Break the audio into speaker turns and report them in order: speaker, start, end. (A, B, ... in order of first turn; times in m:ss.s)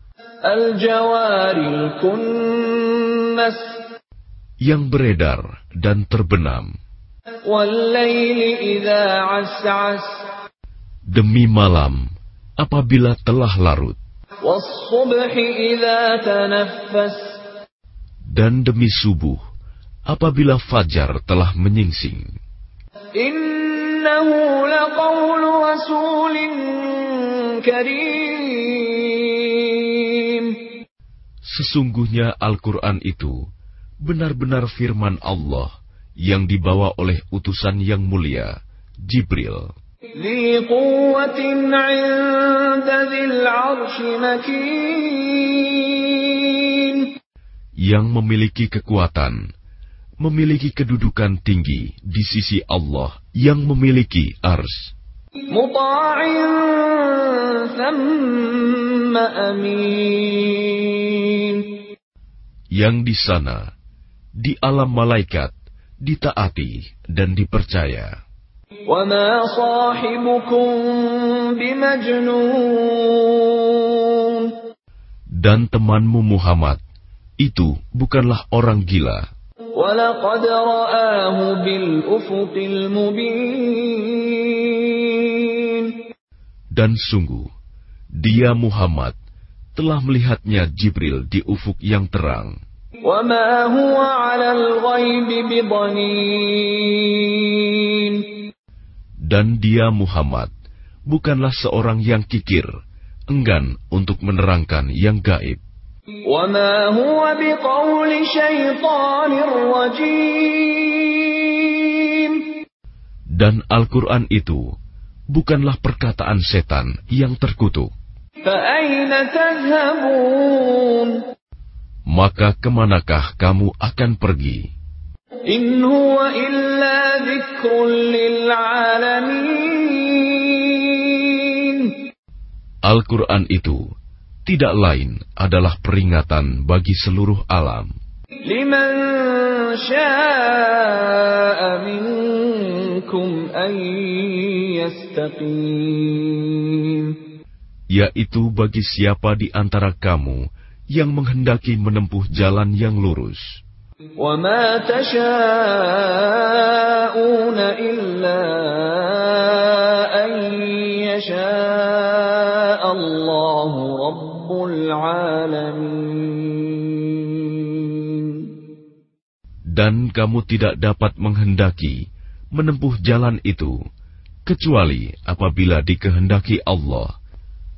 0:00.4-0:03.8 A
0:04.6-0:06.7 B
0:07.4-0:10.2 A
0:11.1-0:12.0 B
0:12.6-0:14.0 B
0:14.4-0:17.4 A
0:18.3-0:19.4 B
0:20.1-0:22.2 B
0:23.2-0:30.6 A
0:31.5-0:33.4 B
0:34.0-0:35.7 B
0:36.2-0:38.5 B
0:39.1-0:39.7 B
0:40.2-0:47.1 A
0:47.8-0:49.4 B
0:50.2-0:54.9 B
0:55.5-1:01.8 A
1:02.8-1:03.6 B
1:04.4-1:05.5 B
1:06.0-1:08.1 B
1:08.9-1:14.5 A
1:15.4-1:16.8 B
1:17.4-1:19.2 B
1:19.7-1:26.0 A
1:26.8-1:27.5 B
1:28.2-1:29.1 B
1:29.8-1:32.5 B
1:33.0-1:38.3 A
1:39.3-1:40.5 B
1:41.1-1:42.7 B
1:43.3-1:45.6 B
1:46.2-1:52.4 A
1:53.4-1:54.6 B
1:55.3-1:57.9 B
1:58.4-2:01.2 A
2:02.1-2:04.6 B
2:05.5-2:11.9 A
2:12.9-2:13.8 B
2:14.4-2:17.9 B
2:18.4-2:27.2 A
2:27.9-2:30.4 B
2:30.9-2:33.4 B
2:34.2-2:48.5 A
2:49.8-2:52.0 B
2:52.6-2:53.7 B
2:54.5-2:57.1 B